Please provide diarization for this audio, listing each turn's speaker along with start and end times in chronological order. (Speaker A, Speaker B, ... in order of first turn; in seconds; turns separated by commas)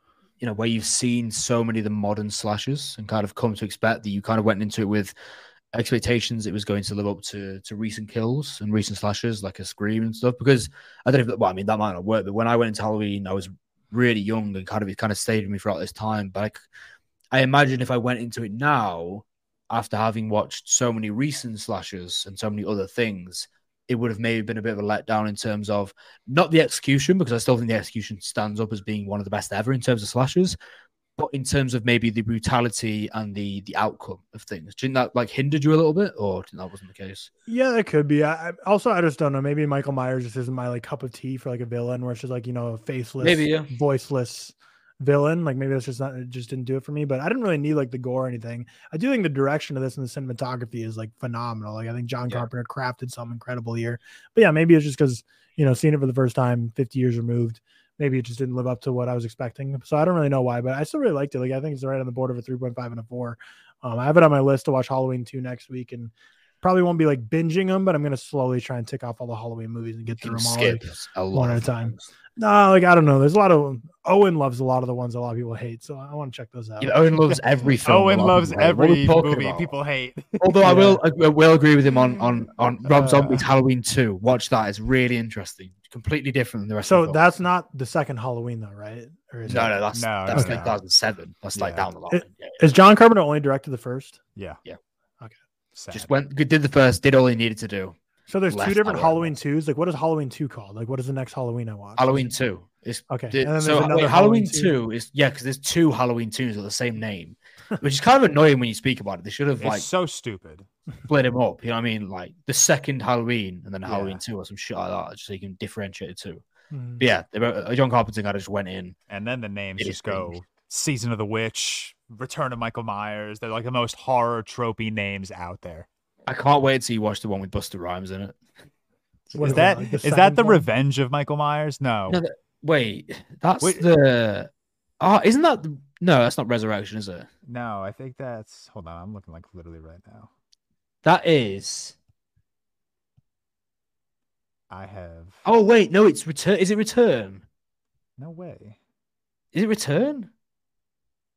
Speaker A: 0.4-5.1, Speaker A: 5.7-16.6, Speaker A: 17.3-30.6, Speaker A: 31.2-37.3, Speaker B: 37.5-77.0, Speaker A: 43.2-43.7, Speaker A: 70.2-72.0, Speaker A: 76.8-79.7, Speaker C: 77.8-80.9, Speaker A: 80.4-87.2, Speaker B: 80.6-81.0, Speaker C: 82.8-83.4, Speaker B: 86.8-89.8, Speaker A: 89.5-92.6, Speaker C: 89.9-90.8, Speaker B: 90.3-90.6, Speaker C: 91.5-91.9, Speaker B: 92.1-94.2, Speaker C: 94.4-94.6, Speaker C: 95.8-96.1, Speaker A: 95.9-98.0, Speaker B: 98.3-102.3, Speaker A: 98.5-99.3, Speaker A: 102.0-109.9, Speaker B: 103.1-104.7, Speaker C: 109.6-110.7, Speaker A: 111.1-116.4, Speaker C: 113.8-114.2, Speaker B: 116.7-117.0, Speaker A: 117.0-119.0, Speaker C: 119.1-125.9, Speaker A: 119.8-120.3, Speaker A: 126.3-128.4, Speaker C: 129.3-132.2, Speaker B: 129.3-130.7, Speaker A: 132.1-137.3, Speaker C: 137.5-140.3, Speaker A: 141.0-142.0, Speaker C: 144.7-145.4, Speaker A: 145.4-147.4, Speaker C: 148.2-148.8, Speaker A: 149.5-150.3